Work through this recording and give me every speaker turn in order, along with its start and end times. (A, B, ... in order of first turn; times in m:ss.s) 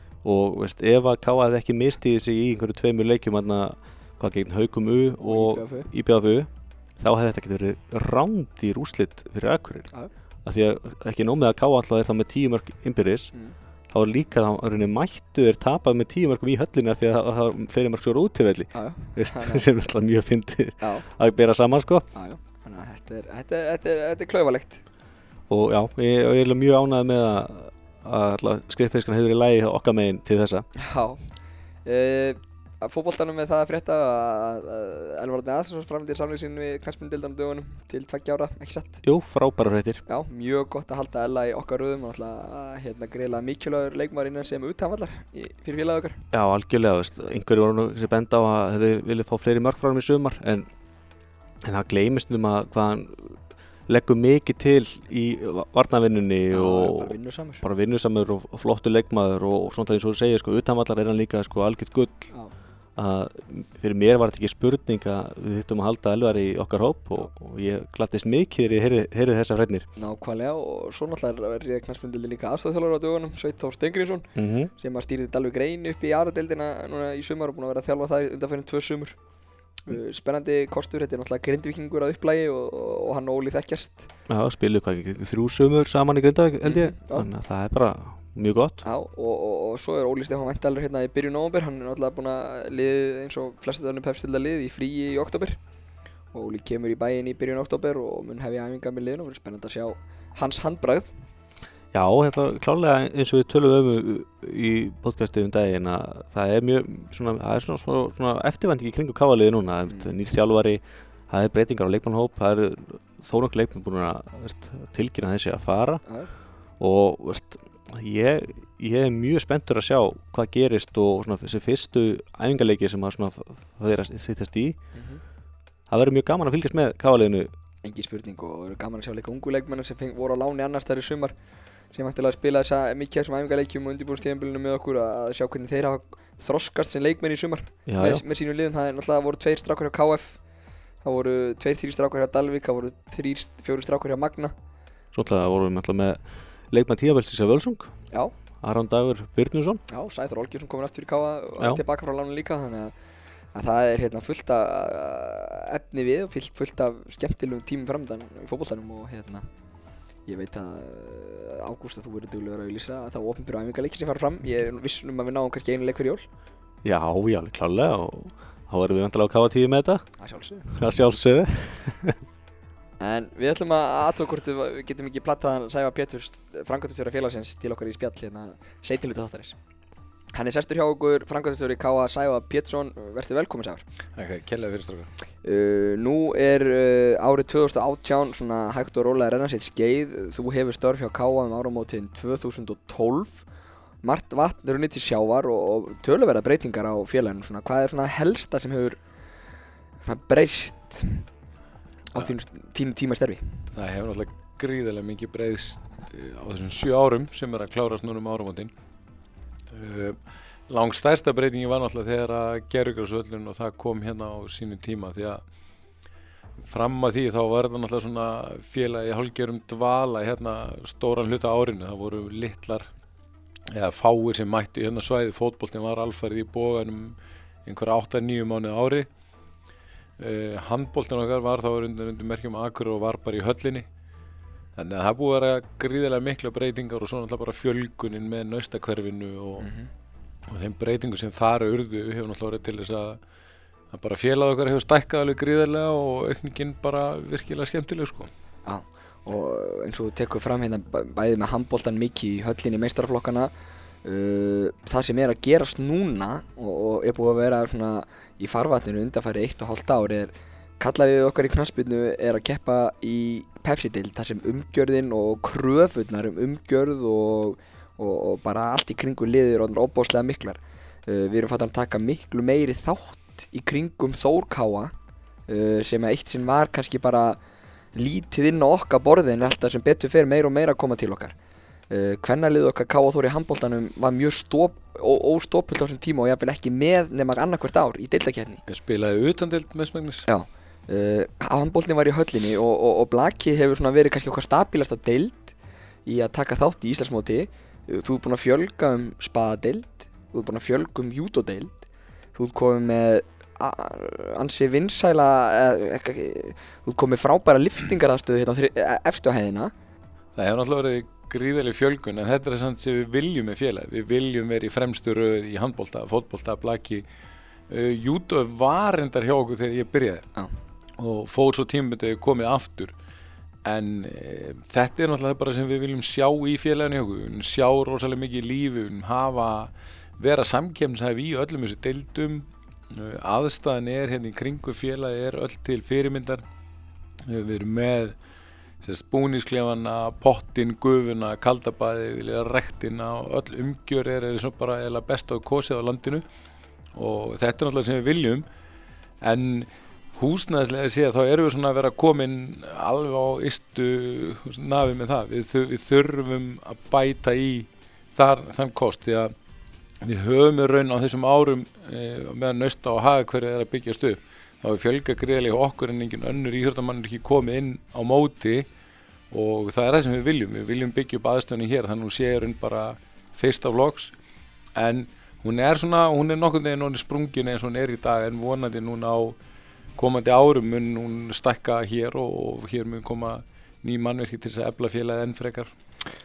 0:00.2-0:09.9 A
0:05.2-0:05.9 B
0:10.4-0:13.3 A
0:13.9-0:22.1 A
0:18.7-0:19.6 B
0:20.8-0:21.1 B
0:22.1-0:24.8 B
0:25.5-0:30.6 A
0:30.8-0:31.2 B
0:31.8-0:39.0 B
0:39.0-0:40.0 A
0:40.1-0:46.2 B
0:46.3-0:50.7 A
0:51.6-1:02.3 A
0:56.5-0:57.6 B
1:03.0-1:09.9 A
1:10.0-1:19.2 B
1:14.4-1:14.7 A
1:19.8-1:24.1 B
1:24.3-1:28.8 A
1:26.6-1:27.3 B
1:28.8-1:35.6 B
1:36.3-1:41.1 B
1:41.9-1:56.0 A
1:56.0-1:56.3 B
1:56.8-2:04.8 A
2:04.9-2:05.2 B
2:05.9-2:07.5 A
2:07.8-2:11.3 B
2:11.9-2:20.4 B
2:17.9-2:18.2 A
2:21.0-2:24.5 B
2:25.1-2:26.2 A
2:26.7-2:27.9 A
2:28.6-2:29.8 A
2:29.9-2:32.9 B
2:33.5-2:39.4 B
2:40.3-2:46.3 B
2:46.8-2:50.1 A
2:50.2-2:50.7 B
2:50.7-2:52.2 A
2:53.0-2:59.6 B
3:00.3-3:03.8 B
3:04.2-3:05.1 C
3:05.4-3:13.4 B
3:14.0-3:19.0 B
3:20.0-3:21.3 B
3:22.1-3:23.7 B
3:23.7-3:28.7 C
3:29.7-3:35.4 C
3:36.6-3:42.9 C
3:43.7-3:49.1 C
3:50.2-3:53.9 C
3:54.8-3:59.7 C
3:59.6-3:59.9 B
4:00.5-4:03.2 C
4:03.9-4:08.3 C
4:08.6-4:13.5 B
4:14.0-4:34.9 B
4:35.5-4:37.4 B
4:37.9-4:41.3 B
4:41.9-4:48.6 B
4:48.7-4:50.3 C
4:50.3-4:55.5 B
4:56.0-5:09.7 B
5:10.4-5:17.0 C
5:17.7-5:20.3 C
5:21.0-5:22.9 C
5:23.6-5:36.4 C
5:37.2-5:38.1 C
5:38.8-5:46.2 C
5:46.9-5:48.4 C
5:49.2-5:59.3 C
6:00.0-6:08.7 C
6:09.3-6:14.1 C
6:14.8-6:19.4 C
6:20.0-6:25.7 C